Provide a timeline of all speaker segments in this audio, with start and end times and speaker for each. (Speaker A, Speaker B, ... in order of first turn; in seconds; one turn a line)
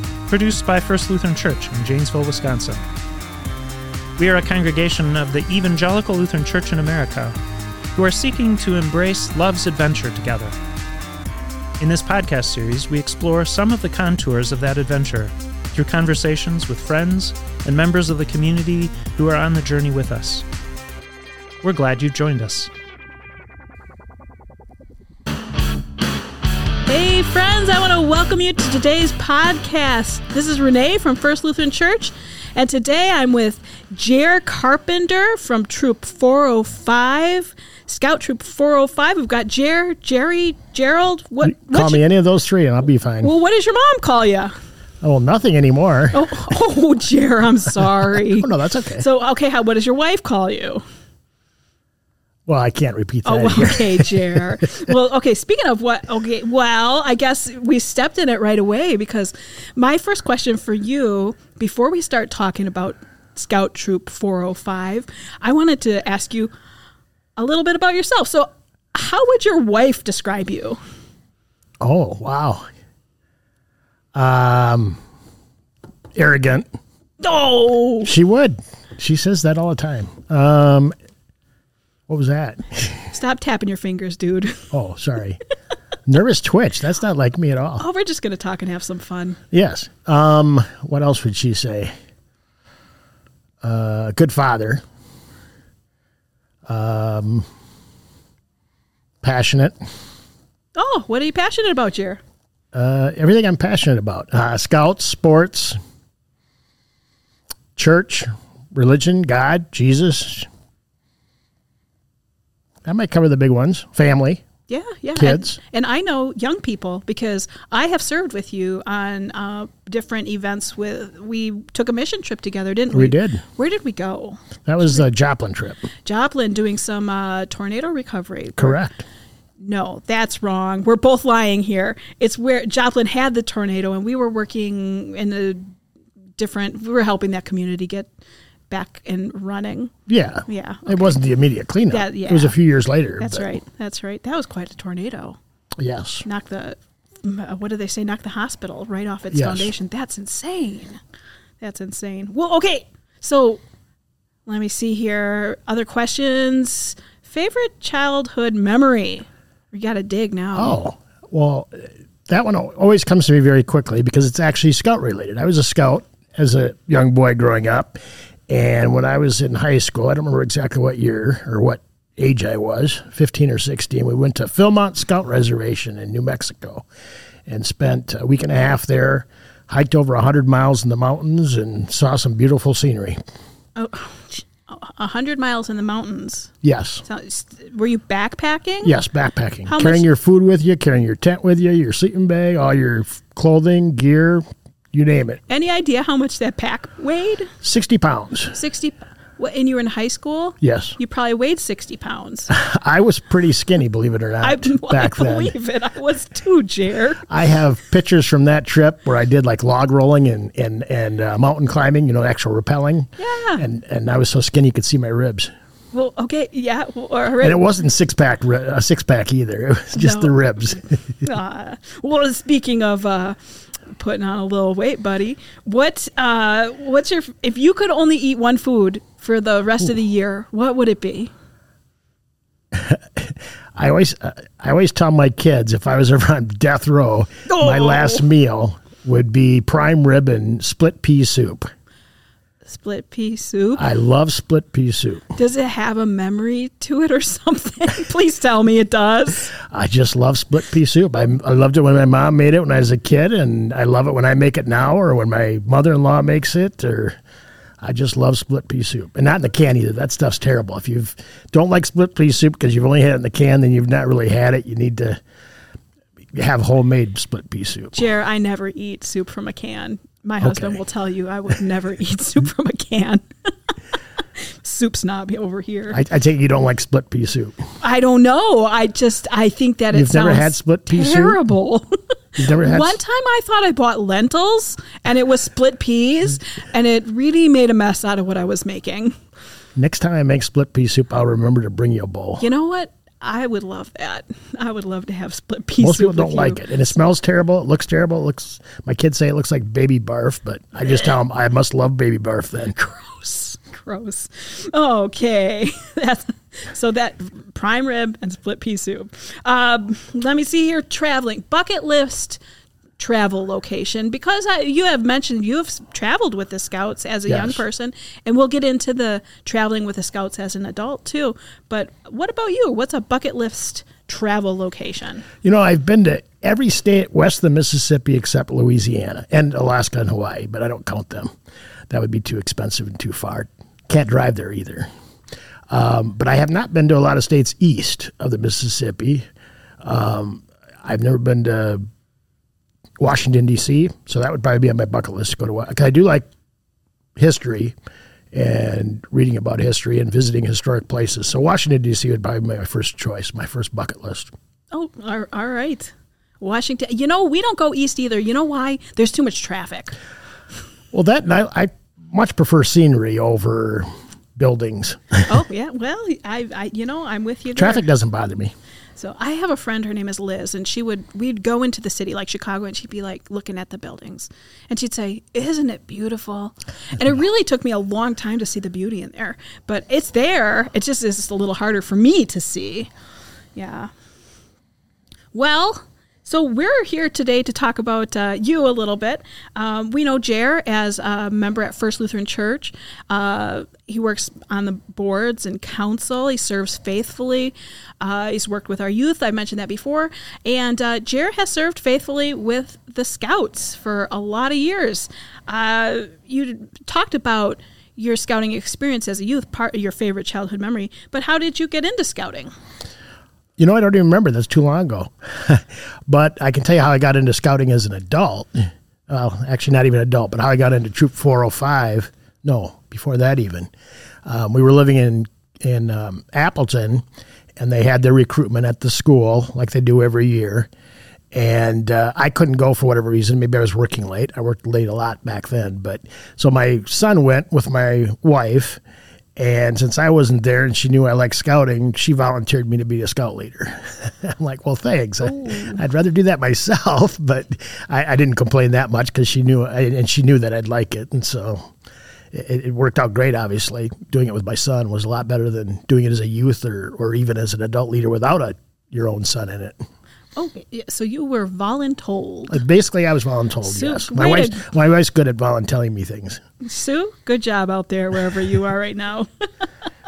Speaker A: 0.3-2.8
Speaker A: 4.2-7.3
Speaker A: 7.9-10.5
Speaker A: 11.8-20.4
Speaker A: 21.6-22.7
Speaker B: 26.8-42.0
Speaker C: 41.4-43.3
Speaker B: 43.2-44.5
Speaker C: 45.0-46.2
Speaker B: 46.1-48.5
Speaker C: 48.3-49.0
Speaker B: 49.0-50.8
Speaker C: 52.5-54.4
Speaker B: 53.2-66.5
Speaker B: 67.3-70.8
Speaker C: 71.8-72.7
Speaker C: 74.1-75.0
Speaker C: 76.1-76.7
Speaker B: 77.2-78.1
Speaker C: 78.0-80.9
Speaker C: 82.1-83.1
Speaker B: 83.1-84.7
Speaker C: 84.7-85.4
Speaker C: 86.1-87.8
Speaker B: 87.8-89.4
Speaker C: 89.5-91.9
Speaker C: 93.6-94.8
Speaker C: 96.7-97.5
Speaker C: 99.2-99.8
Speaker B: 100.8-102.2
Speaker C: 102.7-105.8
Speaker C: 107.8-110.5
Speaker C: 112.8-114.4
Speaker B: 114.7-125.0
Speaker C: 115.2-115.6
Speaker C: 122.9-123.4
Speaker C: 124.7-125.9
Speaker B: 126.0-128.8
Speaker C: 128.6-128.9
Speaker B: 129.6-135.7
Speaker B: 136.4-138.1
Speaker B: 138.7-139.9
Speaker C: 140.1-143.5
Speaker B: 140.5-141.1
Speaker B: 141.9-142.5
Speaker B: 143.2-145.4
Speaker C: 145.8-146.2
Speaker B: 146.2-151.0
Speaker C: 149.3-149.7
Speaker B: 151.6-153.6
Speaker B: 154.4-160.8
Speaker C: 160.5-176.8
Speaker C: 177.5-183.2
Speaker B: 183.8-186.5
Speaker C: 186.6-187.0
Speaker B: 187.0-188.9
Speaker C: 188.8-195.4
Speaker B: 189.7-190.0
Speaker B: 195.5-197.5
Speaker C: 197.6-198.5
Speaker B: 198.5-202.5
Speaker C: 200.6-200.9
Speaker C: 202.5-205.5
Speaker B: 204.4-207.2
Speaker C: 207.3-215.5
Speaker B: 213.2-213.6
Speaker B: 215.9-217.6
Speaker C: 217.4-221.2
Speaker B: 219.9-220.3
Speaker B: 221.2-223.4
Speaker B: 223.9-231.3
Speaker C: 232.7-241.7
Speaker B: 237.4-238.2
Speaker B: 242.6-243.8
Speaker C: 243.8-245.3
Speaker B: 245.3-249.5
Speaker C: 249.5-257.2
Speaker C: 257.8-265.2
Speaker C: 266.3-268.1
Speaker B: 267.9-273.7
Speaker C: 270.4-270.8
Speaker B: 274.3-276.0
Speaker C: 275.9-277.6
Speaker B: 277.8-289.1
Speaker C: 279.9-281.4
Speaker C: 282.4-283.0
Speaker C: 289.8-292.4
Speaker B: 292.4-296.6
Speaker C: 295.8-302.8
Speaker B: 302.7-312.4
Speaker B: 313.0-325.2
Speaker C: 317.3-317.6
Speaker C: 325.4-331.3
Speaker C: 331.9-334.9
Speaker C: 335.7-339.3
Speaker C: 339.8-341.8
Speaker C: 343.0-346.3
Speaker C: 347.1-347.8
Speaker C: 348.3-354.3
Speaker B: 354.7-360.0
Speaker C: 360.9-365.3
Speaker B: 365.3-367.8
Speaker C: 367.6-368.5
Speaker B: 369.0-382.9
Speaker B: 383.5-383.9
Speaker B: 385.3-412.5
Speaker C: 413.6-423.7
Speaker C: 424.2-427.0
Speaker C: 427.6-430.7
Speaker C: 431.3-438.8
Speaker C: 439.4-451.7
Speaker B: 445.2-445.8
Speaker C: 452.3-459.8
Speaker B: 460.4-462.6
Speaker C: 462.5-466.4
Speaker B: 463.6-464.7
Speaker B: 466.6-469.7